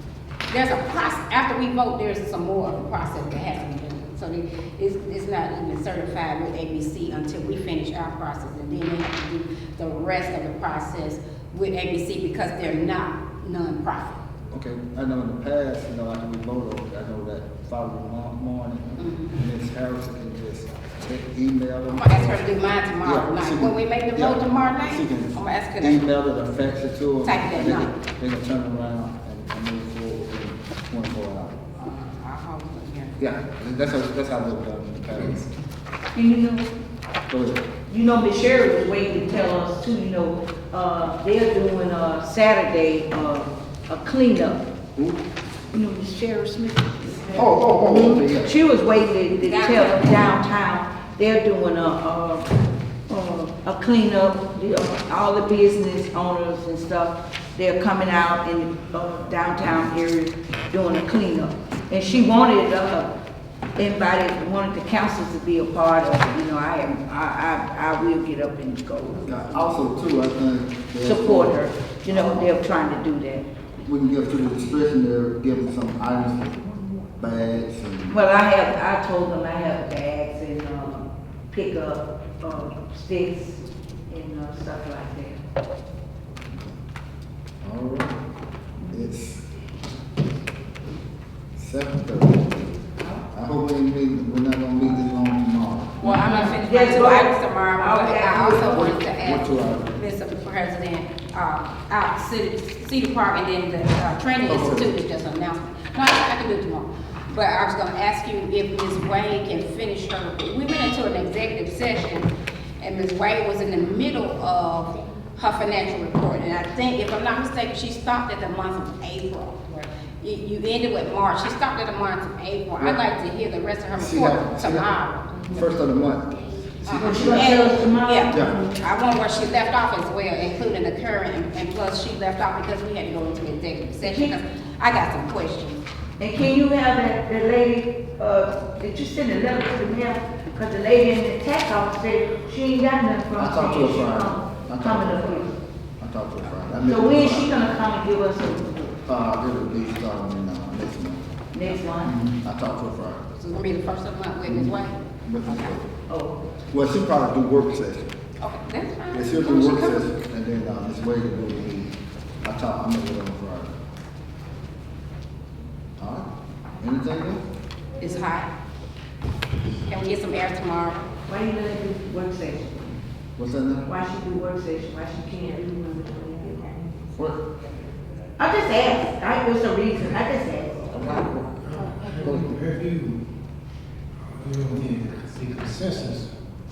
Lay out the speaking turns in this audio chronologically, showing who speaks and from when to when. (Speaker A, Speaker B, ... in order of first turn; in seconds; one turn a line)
Speaker A: 0.5-14.2
Speaker B: 14.5-22.4
Speaker A: 19.0-19.4
Speaker A: 21.9-26.0
Speaker B: 23.0-31.6
Speaker A: 27.2-27.9
Speaker A: 31.8-33.2
Speaker B: 33.2-35.5
Speaker C: 36.1-36.7
Speaker B: 37.3-37.7
Speaker C: 37.9-44.7
Speaker B: 45.0-45.2
Speaker C: 45.7-52.5
Speaker B: 47.3-48.5
Speaker A: 49.4-50.2
Speaker C: 53.1-63.1
Speaker C: 63.8-69.4
Speaker B: 69.2-72.5
Speaker C: 71.0-73.5
Speaker B: 73.8-76.6
Speaker B: 77.2-78.2
Speaker C: 78.1-85.4
Speaker B: 87.6-88.2
Speaker B: 88.9-89.4
Speaker B: 91.5-96.0
Speaker A: 96.0-112.3
Speaker C: 96.0-98.9
Speaker B: 98.6-99.9
Speaker B: 104.5-104.9
Speaker A: 112.8-125.6
Speaker B: 123.9-124.9
Speaker B: 125.5-128.5
Speaker A: 126.8-135.8
Speaker C: 127.0-128.6
Speaker C: 134.0-134.3
Speaker C: 136.2-145.5
Speaker B: 143.3-147.5
Speaker C: 146.8-149.0
Speaker B: 149.1-151.2
Speaker C: 151.5-152.1
Speaker A: 151.7-151.9
Speaker B: 152.0-153.2
Speaker A: 153.3-155.8
Speaker B: 154.5-154.7
Speaker B: 155.2-155.9
Speaker C: 156.1-156.4
Speaker B: 156.7-158.1
Speaker A: 158.4-160.0
Speaker B: 159.1-161.9
Speaker B: 162.4-163.7
Speaker B: 166.0-166.2
Speaker B: 166.8-167.4
Speaker A: 168.0-168.5
Speaker A: 169.9-171.0
Speaker C: 171.3-172.9
Speaker B: 173.4-173.9
Speaker C: 173.8-177.0
Speaker B: 177.1-177.4
Speaker C: 178.4-180.9
Speaker B: 180.9-182.6
Speaker D: 181.6-183.2
Speaker D: 184.2-186.3